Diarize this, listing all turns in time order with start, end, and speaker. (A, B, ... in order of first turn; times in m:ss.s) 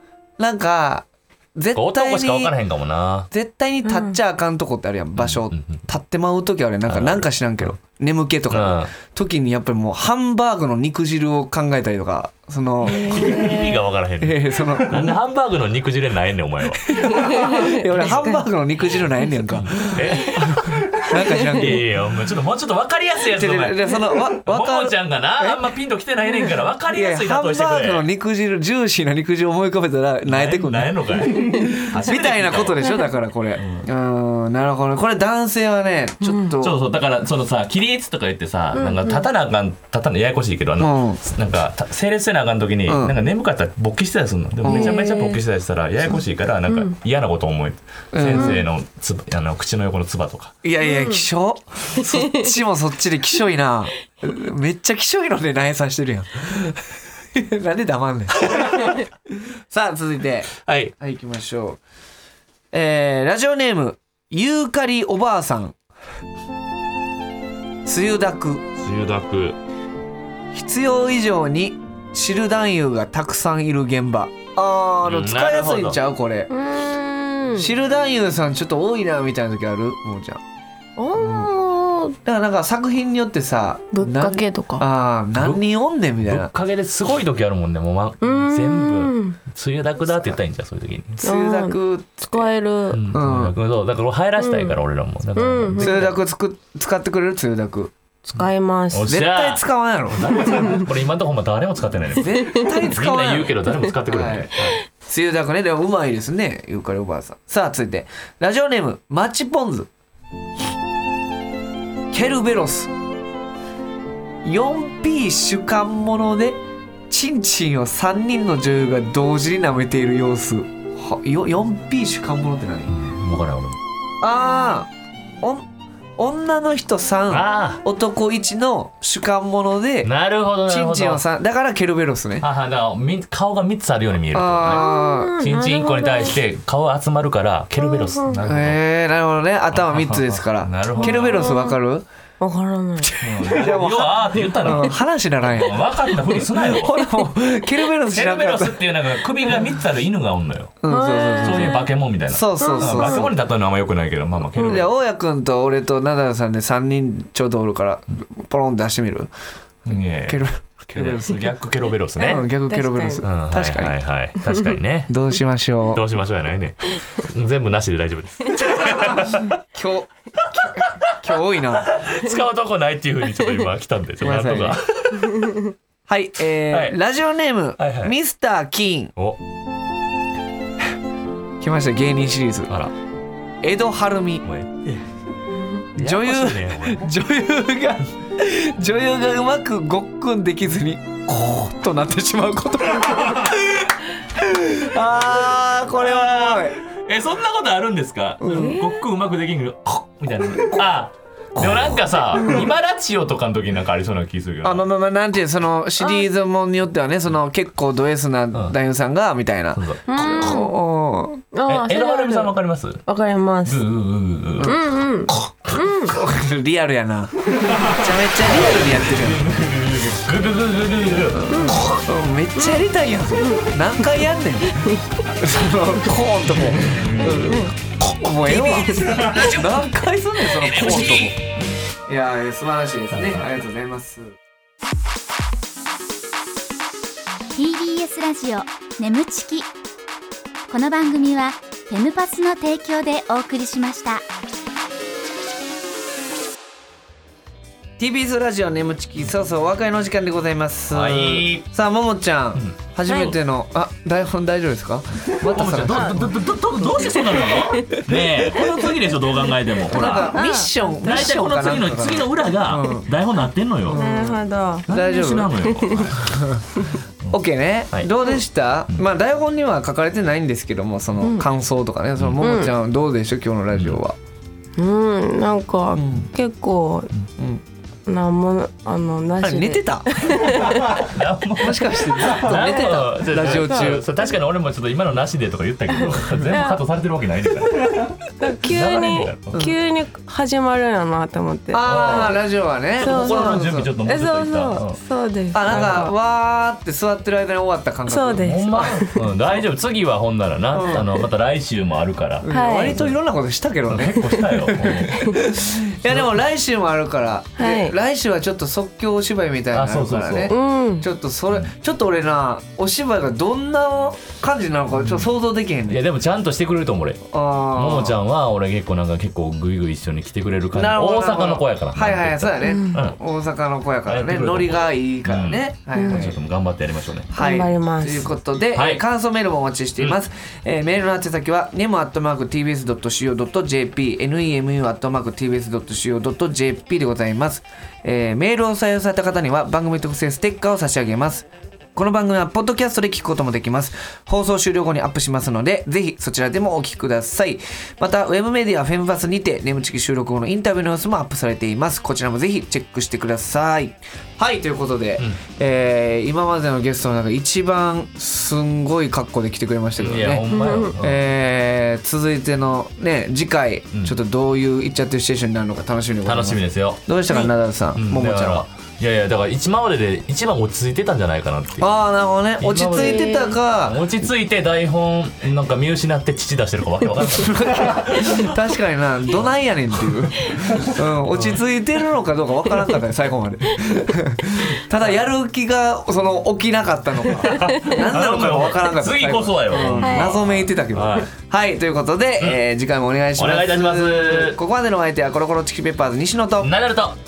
0:00.4-0:02.5 A
0:01.8-0:03.3 B
0:03.3-0:13.6 A
0:03.8-0:04.1 C
0:05.2-0:05.8 B
0:06.9-0:07.7 B
0:08.5-0:08.9 B
0:12.8-0:18.2 B
0:12.9-0:13.5 C
0:14.2-0:15.2 A
0:16.8-0:21.9 A
0:17.1-0:17.8 C
0:19.5-0:28.1 B
0:23.3-0:25.6 A
0:26.9-0:36.8 A
0:30.2-0:32.9 B
0:33.6-0:33.9 B
0:36.2-0:36.5 C
0:36.6-0:50.5 B
0:38.8-0:39.2 C
0:40.8-0:41.2 A
0:42.9-0:43.1 A
0:44.6-0:45.0 A
0:44.7-0:45.4 C
0:46.7-0:46.9 C
0:48.1-0:48.6 A
0:50.6-1:01.8 A
0:50.8-0:51.2 C
0:52.0-0:52.4 C
0:58.4-0:58.9 B
1:00.6-1:00.9 B
1:02.7-1:05.7 A
1:07.8-1:08.6 A
1:08.8-1:09.6 B
1:10.5-1:16.5 A
1:15.0-1:16.0 B
1:16.5-1:17.7 C
1:17.5-1:20.4 A
1:21.0-1:22.2 C
1:21.1-1:21.5 A
1:22.2-1:26.5 A
1:23.9-1:24.8 C
1:25.3-1:25.6 B
1:26.2-1:31.2 B
1:28.2-1:29.4 C
1:31.2-1:32.5 A
1:31.2-1:33.0 C
1:32.9-1:36.2 B
1:33.1-1:33.6 A
1:34.4-1:34.8 C
1:35.4-1:36.0 C
1:35.8-1:37.9 A
1:38.2-1:39.1 C
1:38.9-1:44.8 B
1:39.1-1:40.8 A
1:42.2-1:49.9 A
1:52.1-1:52.9 A
1:54.4-2:02.9 A
2:02.9-2:03.8 B
2:04.2-2:04.9 A
2:05.4-2:10.1 A
2:07.3-2:07.8 B
2:10.0-2:11.2 B
2:10.7-2:12.4 A
2:12.4-2:14.8 B
2:14.3-2:15.3 A
2:14.7-2:16.4 C
2:15.4-2:18.8 B
2:17.9-2:18.4 C
2:18.4-2:22.0 A
2:19.8-2:21.6 B
2:21.0-2:21.8 C
2:22.4-2:23.2 C
2:23.0-2:28.8 A
2:23.2-2:27.0 B
2:28.0-2:30.8 B
2:30.8-2:33.3 A
2:30.9-2:31.9 C
2:31.4-2:34.9 B
2:32.6-2:33.2 C
2:34.6-2:34.8 C
2:34.6-2:39.3 A
2:39.8-2:42.4 B
2:40.3-2:41.4 A
2:42.2-2:43.2 C
2:42.2-2:44.0 A
2:43.2-2:45.2 B
2:45.1-2:46.0 A
2:45.9-2:49.6 B
2:48.7-2:52.0 A
2:50.8-2:51.2 B
2:51.8-2:55.6 B
2:54.2-2:54.8 A
2:56.1-2:59.1 A
2:56.7-2:57.0 B
2:57.8-2:58.1 B
3:01.6-3:02.7 A
3:03.6-3:04.4 A
3:04.4-3:05.0 B
3:05.9-3:07.1 B
3:05.9-3:16.8 A
3:15.9-3:24.8 B
3:18.4-3:18.8 A
3:21.6-3:22.6 A
3:24.6-3:31.4 A
3:29.8-3:30.6 B
3:30.1-3:30.7 C
3:31.5-3:33.8 C
3:31.7-3:33.0 B
3:33.6-3:35.8 B
3:34.6-3:34.9 A
3:34.6-3:36.2 C
3:36.0-3:39.4 A
3:37.6-3:42.0 B
3:41.3-3:51.4 A
3:41.5-3:41.8 C
3:46.8-3:47.6 B
3:47.3-3:47.7 C
3:48.6-3:49.2 C
3:48.9-3:49.6 B
3:50.7-3:51.3 B
3:52.1-3:54.4 A
3:53.1-3:53.4 B
3:57.5-3:59.7 D
4:00.7-4:04.2 D
4:08.0-4:16.4 A
4:10.9-4:11.7 B
4:13.1-4:13.4 C
4:15.3-4:24.0 B
4:16.9-4:18.0 C
4:18.1-4:18.7 A
4:19.9-4:23.0 A
4:19.9-4:20.7 C
4:23.8-4:25.6 A
4:23.9-4:26.1 C
4:24.9-4:26.5 B
4:26.2-4:26.6 A
4:27.3-4:34.2 A
4:32.2-4:32.4 B
4:32.4-4:32.7 C
4:33.7-4:34.0 B
4:34.8-4:37.1 C
4:36.0-4:36.3 A
4:38.0-4:41.0 C
4:39.4-4:40.8 A
4:40.8-4:49.6 B
4:41.6-4:44.1 A
4:42.5-4:42.8 C
4:43.5-4:44.0 C
4:46.4-4:46.8 C
4:48.4-4:52.4 C
4:51.7-4:53.9 A
4:51.8-4:55.0 B
4:53.0-4:56.1 C
4:55.5-4:59.0 A
4:55.7-4:56.1 B
4:58.0-4:59.2 C
4:58.4-5:03.2 B
5:00.7-5:01.1 A
5:02.4-5:16.0 A
5:02.5-5:03.0 C
5:03.9-5:05.4 B
5:07.6-5:07.9 C
5:09.7-5:10.5 B
5:10.5-5:11.1 C
5:15.0-5:15.3 B
5:15.9-5:23.2 B
5:17.3-5:18.2 A
5:20.7-5:26.4 A
5:22.6-5:23.0 C
5:24.0-5:27.3 B
5:25.9-5:26.3 C
5:27.3-6:08.6 A
5:27.4-5:28.3 C
5:28.7-5:29.0 B
6:00.0-6:01.2 B
6:00.5-6:00.9 C
6:06.2-6:07.1 B
6:07.9-6:11.9 B
6:11.8-6:14.0 A
6:12.6-6:18.5 B
6:12.9-6:13.6 C
6:17.4-6:36.7 A
6:20.7-6:21.6 B
6:27.4-6:31.3 B
6:30.0-6:30.3 C
6:33.4-6:34.6 B
6:36.6-6:37.2 B